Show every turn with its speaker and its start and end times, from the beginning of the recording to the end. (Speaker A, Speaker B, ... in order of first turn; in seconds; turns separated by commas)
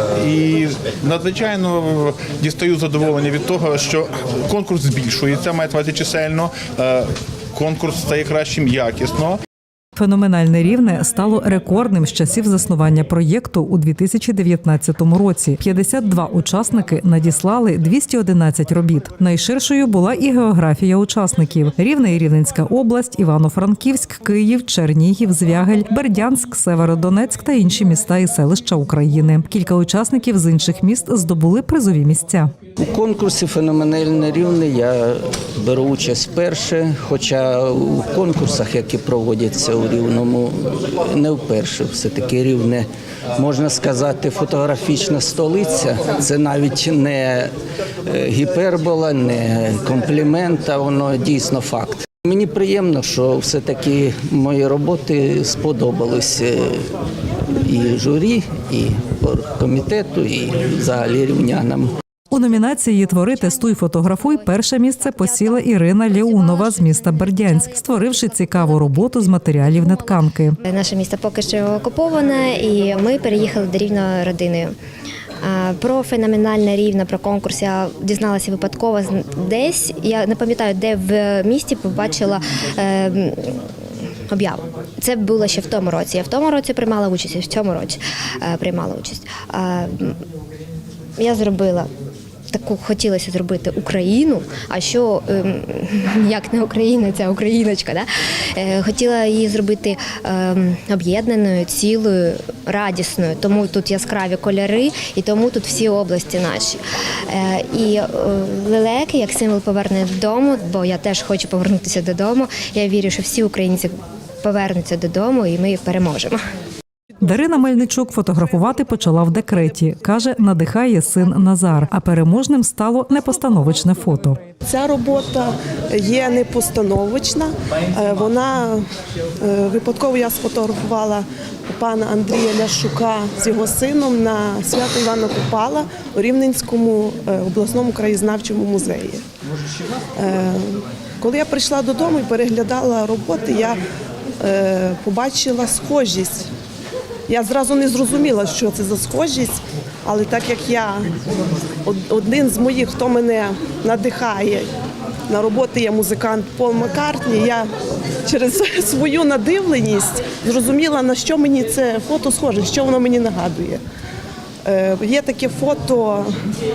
Speaker A: 0.2-9.4, Speaker B: 9.9-32.5, Speaker C: 32.8-47.5, Speaker C: 48.0-56.9, Speaker C: 57.5-61.9, Speaker B: 62.3-70.6, Speaker D: 70.6-74.7, Speaker D: 75.4-83.6, Speaker D: 84.3-90.2, Speaker D: 91.2-91.9, Speaker D: 92.5-116.4, Speaker B: 117.2-124.4, Speaker E: 124.6-128.8, Speaker E: 129.4-139.2, Speaker E: 140.2-143.8, Speaker E: 144.4-146.5, Speaker E: 147.3-151.1, Speaker E: 151.8-154.7, Speaker E: 155.3-157.7, Speaker E: 158.2-163.8, Speaker E: 164.7-166.3